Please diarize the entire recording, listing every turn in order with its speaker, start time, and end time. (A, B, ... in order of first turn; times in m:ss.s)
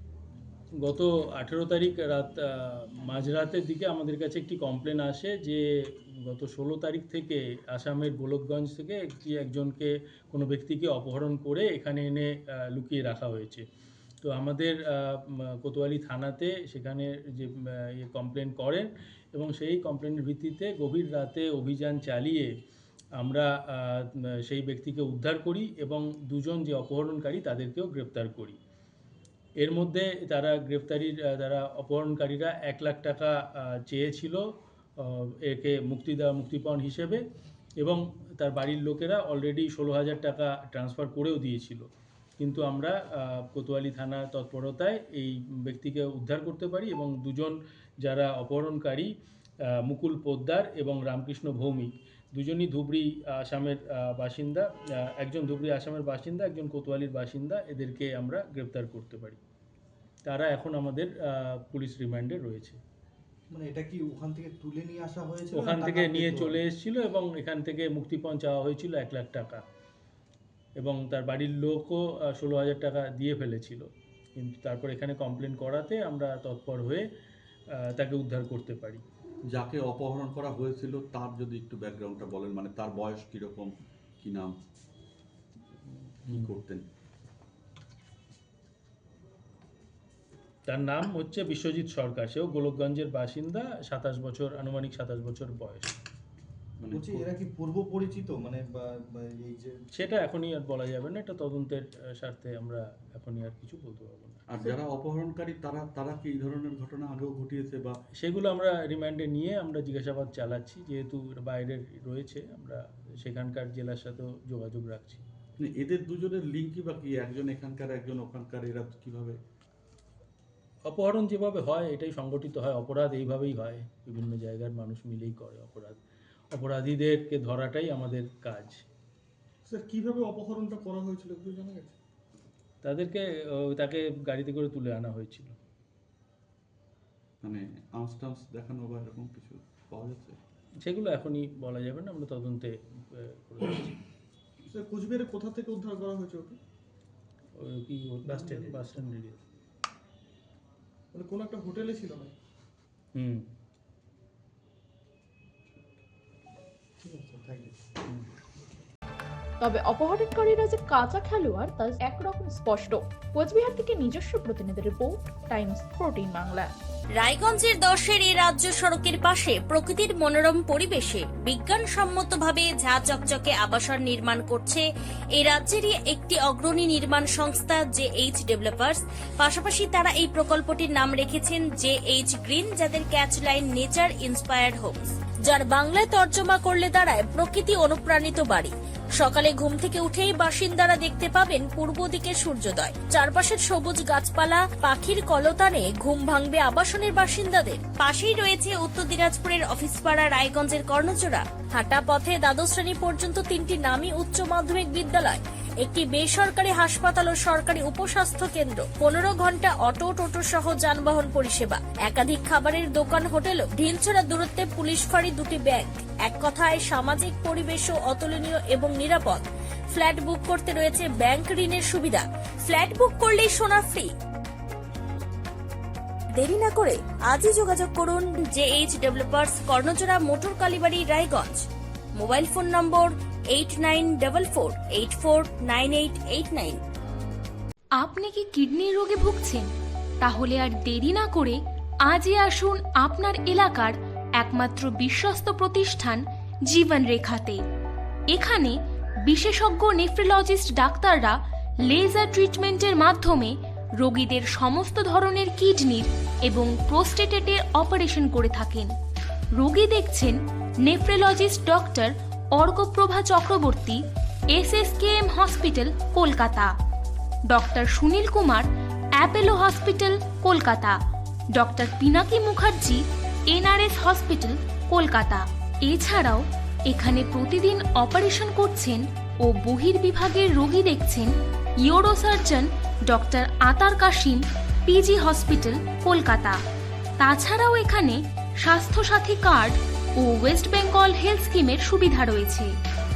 0:00.8-0:13.6 A
0:14.2-0:22.5 A
0:23.2-0:28.6 A
0:29.6-0:34.4 A
0:35.0-0:37.2 A
0:37.8-0:41.9 A
0:42.4-0:49.1 A
0:49.8-0:54.7 A
0:55.2-0:59.4 A
1:00.3-1:02.8 A
1:03.5-1:06.6 B
1:05.5-1:09.6 A
1:10.8-1:13.9 A
1:14.4-1:17.0 A
1:17.8-1:19.0 A
1:19.5-1:24.6 C
1:26.3-1:26.6 A
1:26.3-1:26.9 C
1:30.7-1:36.0 A
1:36.8-1:37.3 C
1:36.9-1:39.7 B
1:39.9-1:44.6 A
1:44.5-1:48.0 C
1:48.2-1:55.2 A
1:55.6-1:59.4 C
2:00.9-2:06.0 A
2:06.5-2:08.8 A
2:09.7-2:11.9 D
2:12.8-2:15.6 A
2:17.4-2:20.4 C
2:20.8-2:24.0 A
2:24.9-2:26.6 D
2:27.6-2:29.4 A
2:31.2-2:32.3 D
2:33.2-2:33.4 A
2:37.0-2:37.7 B
2:39.6-2:46.7 E
2:47.2-3:44.1 F
3:46.4-3:56.8 F
3:58.0-3:59.7 G
4:00.2-4:07.6 G
4:08.3-4:18.9 G
4:19.6-4:26.7 G
4:27.5-4:31.0 G
4:31.5-4:46.6 G
4:47.2-4:52.7 G